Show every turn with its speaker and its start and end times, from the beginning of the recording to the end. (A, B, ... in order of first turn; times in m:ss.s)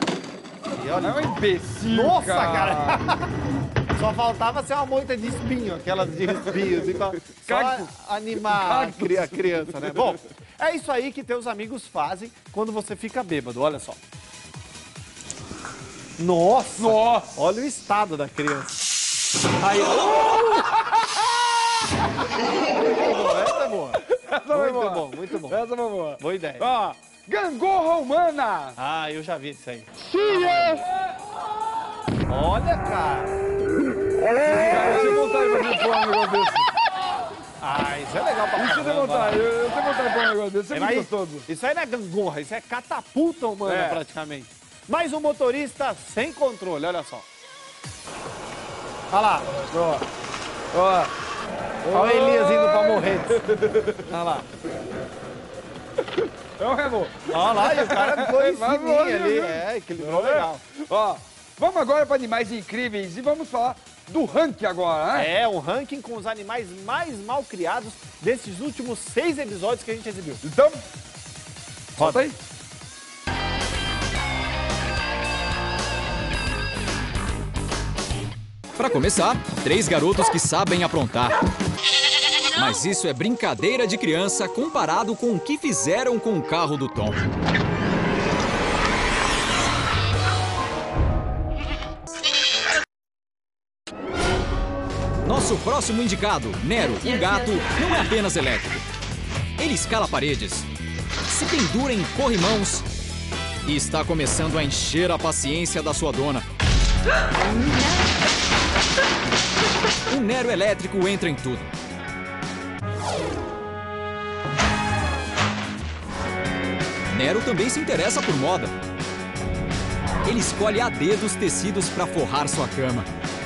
0:00.7-0:01.2 A
0:01.0-0:03.0 B
0:01.9-0:03.2 A
0:03.9-0:14.0 A
0:07.4-0:07.9 B
0:08.4-0:09.7 B
0:16.2-0:18.8 A
0:16.8-0:17.3 B
0:19.6-0:20.4 A
0:20.3-0:21.1 B
0:22.8-0:25.6 A
0:24.1-0:28.8 B
0:26.2-0:26.7 A
0:28.8-0:30.8 A
0:32.3-0:33.3 A
0:34.4-0:35.2 A
0:34.5-0:36.7 B
0:37.6-0:39.4 A
0:38.6-0:41.4 B
0:40.7-0:47.2 A
0:43.6-0:44.0 B
0:49.1-0:49.6 A
0:49.7-0:50.0 B
0:50.7-0:51.1 B
0:51.8-0:53.9 B
0:51.9-0:54.4 A
0:56.6-1:05.3 B
0:57.3-1:00.6 A
1:05.1-1:10.4 A
1:10.4-1:10.8 B
1:12.0-1:12.4 B
1:12.0-1:12.2 A
1:18.8-1:21.4 C
1:22.5-1:27.3 C
1:35.2-1:38.7 C
1:39.6-1:40.7 C
1:41.3-1:42.8 C
1:43.6-1:46.4 C
1:50.1-1:51.7 C
1:57.1-1:58.7 C
2:00.2-2:03.1 C